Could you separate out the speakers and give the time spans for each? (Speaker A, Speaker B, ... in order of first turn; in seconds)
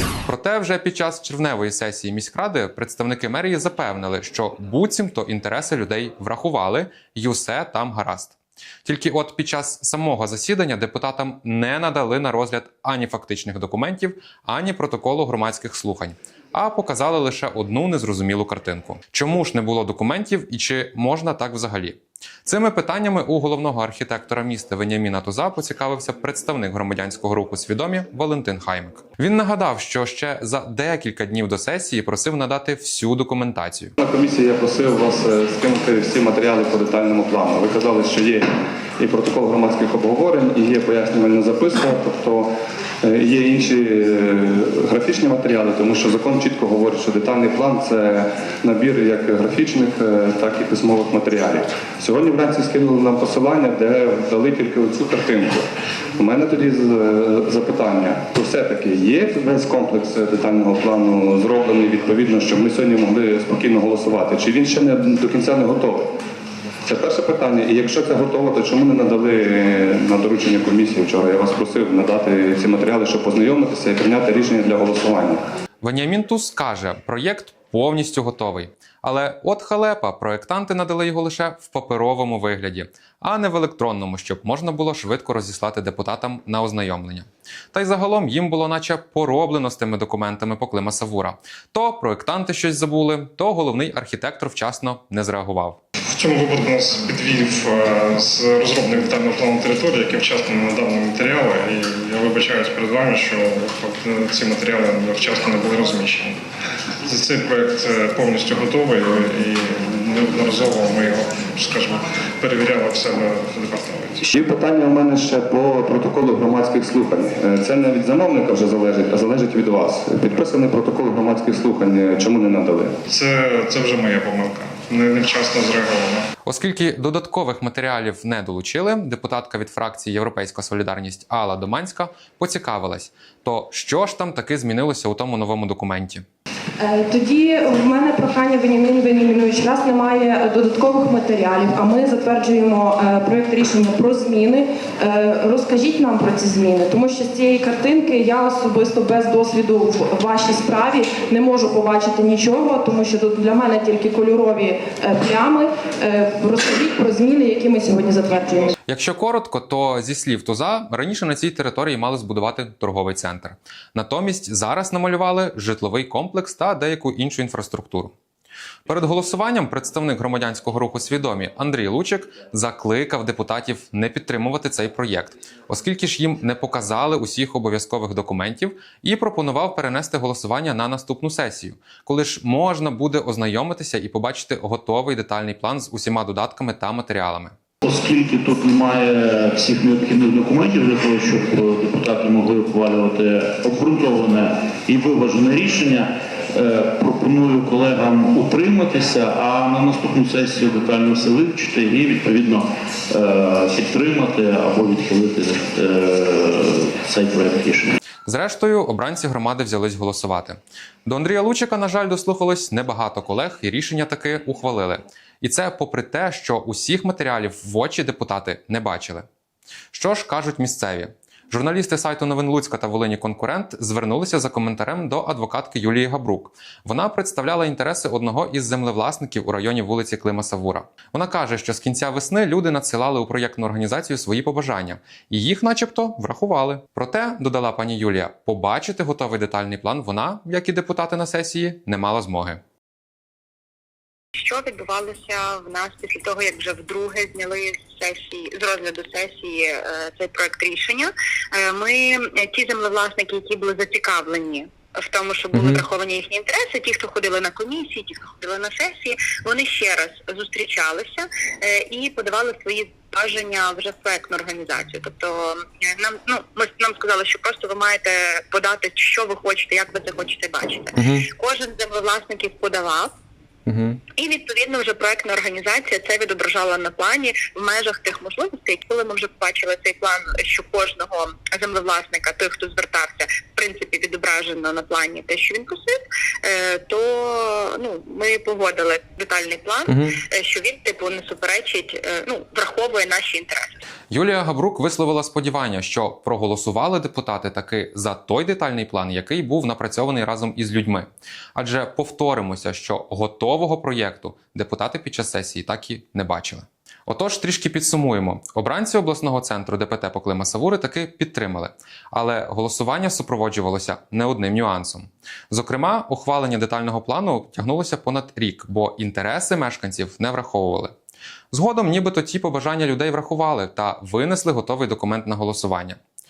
Speaker A: 0.3-33.9, 75.8-95.8, 126.5-136.2, 158.9-168.1, 168.9-187.6, 208.3-219.3, 219.9-242.6, 255.6-255.8, 271.0-271.3, 273.7-274.0, 289.9-290.2, 294.1-320.9, 321.5-326.0
Speaker B: 34.0-38.5, 39.0-42.5, 43.0-55.7, 56.2-66.1, 66.9-75.4, 114.3-122.9
Speaker C: 96.2-106.4, 107.1-114.2, 123.1-126.3
Speaker D: 136.9-158.7
Speaker E: 187.8-208.0
Speaker F: 244.4-273.1, 274.2-293.8